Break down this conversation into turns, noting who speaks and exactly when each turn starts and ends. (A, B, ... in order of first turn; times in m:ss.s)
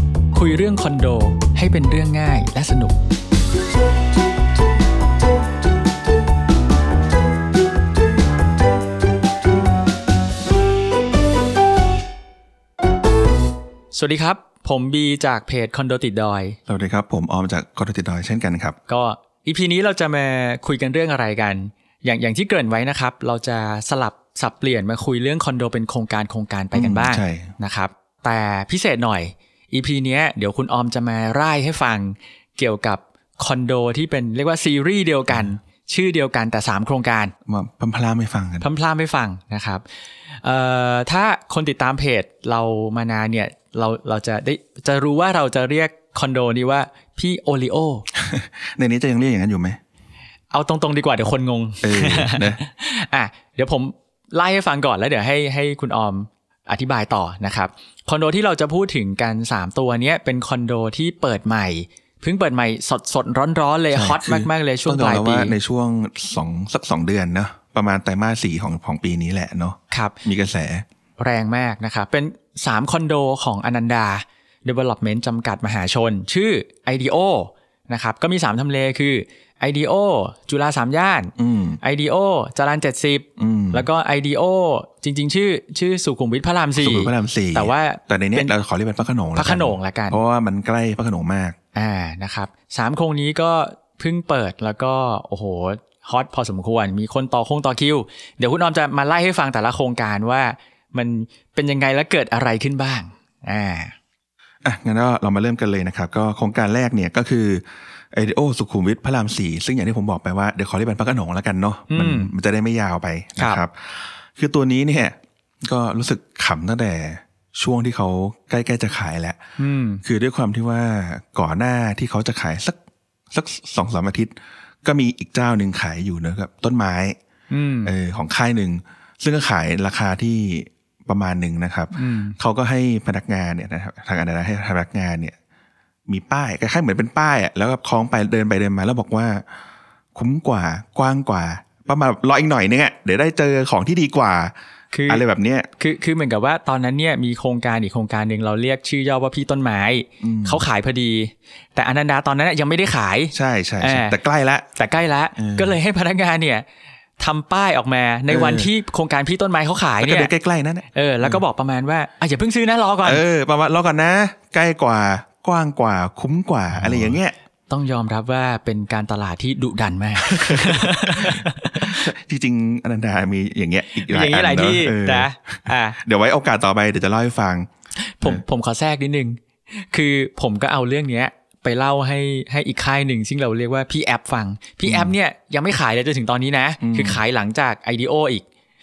0:00.3-0:03.0 A
0:13.9-0:16.6 A
0:16.7-0:18.8 B
0:18.9-0:37.3 A
0:26.7-0:27.5 B
0:35.3-0:35.6 B
0:37.5-0:38.6 B
0:38.6-0:39.8 A
0:40.4-0:48.1 A
0:48.1-0:49.8 B
0:50.5-1:05.6 A
0:51.8-0:52.6 B
1:03.9-1:10.8 B
1:09.9-1:10.2 A
1:11.2-1:28.5 A
1:21.4-1:21.8 B
1:23.4-1:23.9 B
1:26.8-1:31.6 B
1:29.4-1:30.2 A
1:31.7-1:44.0 A
1:44.6-1:59.4 B
1:51.9-1:52.3 A
1:59.6-2:00.0 A
2:00.0-2:02.8 B
2:03.3-2:07.2 B
2:07.5-2:08.0 A
2:07.8-2:15.4 B
2:11.9-2:12.4 A
2:16.1-2:19.5 B
2:20.2-2:24.5 B
2:24.9-2:25.2 A
2:25.1-2:25.7 B
2:25.8-2:34.2 A
2:30.2-2:30.6 B
2:33.3-2:34.7 B
2:34.8-2:36.6 A
2:35.4-2:35.8 B
2:37.2-2:40.3 A
2:38.3-2:38.7 B
2:40.0-2:41.4 B
2:40.9-2:43.2 A
2:43.0-2:47.4 B
2:46.7-2:47.2 A
2:47.7-2:52.1 A
2:50.2-2:57.7 B
2:54.0-2:56.0 A
2:58.0-3:08.5 A
3:04.8-3:05.2 B
3:06.8-3:07.2 B